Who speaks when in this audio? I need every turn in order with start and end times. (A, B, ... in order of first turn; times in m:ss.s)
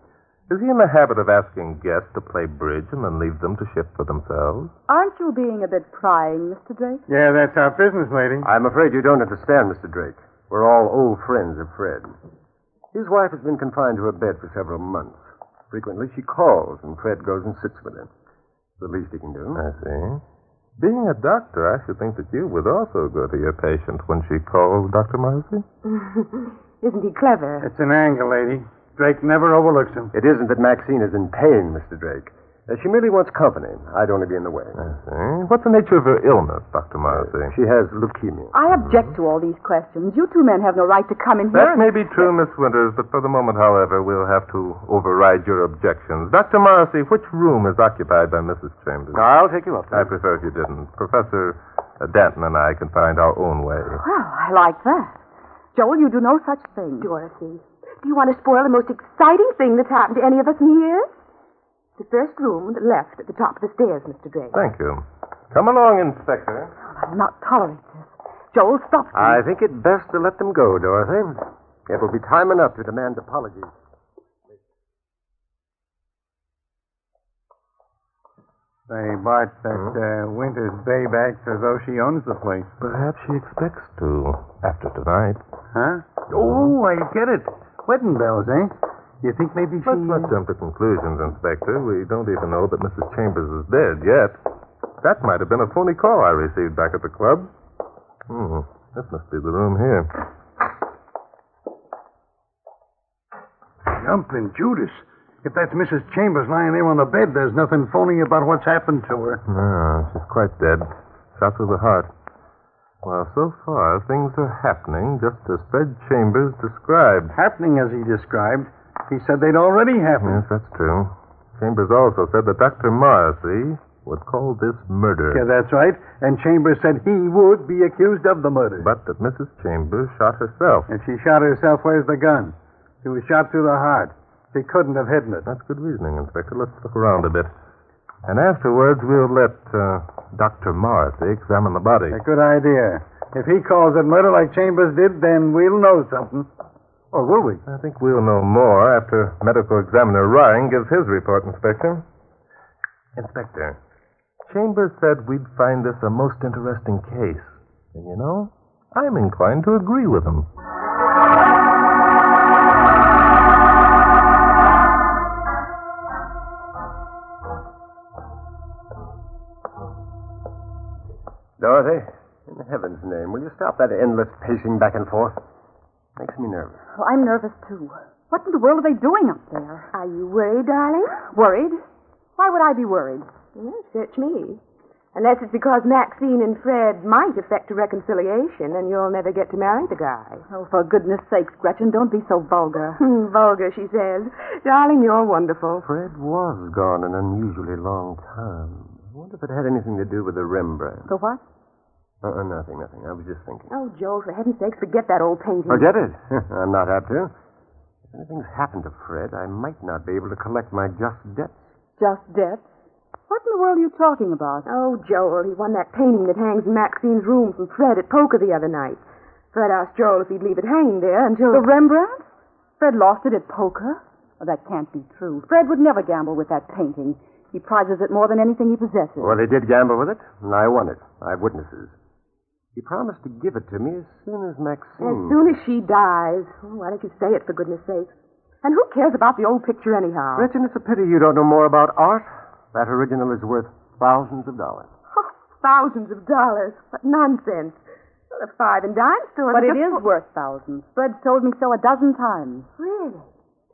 0:00.5-0:04.7 A
0:04.9-0:07.0 B
0:07.1-0:08.5 C
0:08.4-0:12.2 D
0:12.9-0:15.2 D
0:15.7-0:18.1 D
0:18.8-0:19.6 D
0:19.6-0:20.2 A
0:20.8-0:25.6 A
0:25.8-0:27.7 E
0:27.6-0:30.1 C
0:30.1-0:34.8 D
0:34.8-0:37.5 A
0:37.1-0:38.5 D
0:38.5-0:42.3 B
0:41.5-0:49.2 A
0:49.1-0:50.1 D
0:49.9-0:54.0 A
0:54.0-0:55.2 B
0:55.8-0:57.1 B
0:57.0-1:01.1 E
1:02.0-1:04.6 E
1:04.5-1:06.7 A
1:06.9-1:09.4 B
1:09.1-1:13.7 D
1:18.9-1:22.7 C
1:22.8-1:25.4 A
1:25.7-1:30.4 C
1:29.8-1:34.4 A
1:35.0-1:37.5 A
1:38.3-1:40.1 A
1:43.9-1:49.4 C
1:49.5-1:52.1 A
1:53.0-1:57.3 A
1:57.3-2:00.4 C
2:00.2-2:05.4 A
2:05.3-2:08.9 C
2:08.8-2:10.9 A
2:10.9-2:15.5 C
2:15.5-2:17.5 A
2:18.2-2:22.2 A
2:22.1-2:26.5 C
2:27.1-2:27.6 C
2:27.7-2:32.0 A
2:33.2-2:33.8 A
2:34.5-2:40.5 A
2:51.6-2:55.4 D
2:56.2-2:56.8 D
2:57.0-2:59.9 B
2:59.9-3:01.2 E
3:01.3-3:01.8 B
3:02.4-3:03.3 B
3:03.6-3:04.6 E
3:05.1-3:10.4 E
3:10.5-3:13.0 B
3:13.0-3:15.8 E
3:15.8-3:21.1 D
3:21.1-3:21.4 B
3:22.2-3:23.7 D
3:23.7-3:25.9 E
3:25.7-3:27.3 D
3:28.1-3:31.7 D
3:32.0-3:32.7 B
3:33.3-3:34.7 B
3:34.6-3:41.7 E
3:41.5-3:42.3 B
3:42.8-3:49.4 B
3:49.2-3:52.0 D
3:52.8-3:55.4 D
3:55.0-3:58.1 E
3:58.6-4:00.5 E
4:00.4-4:04.9 D
4:05.1-4:07.8 E
4:08.3-4:10.0 E
4:09.5-4:12.7 B
4:12.8-4:13.3 E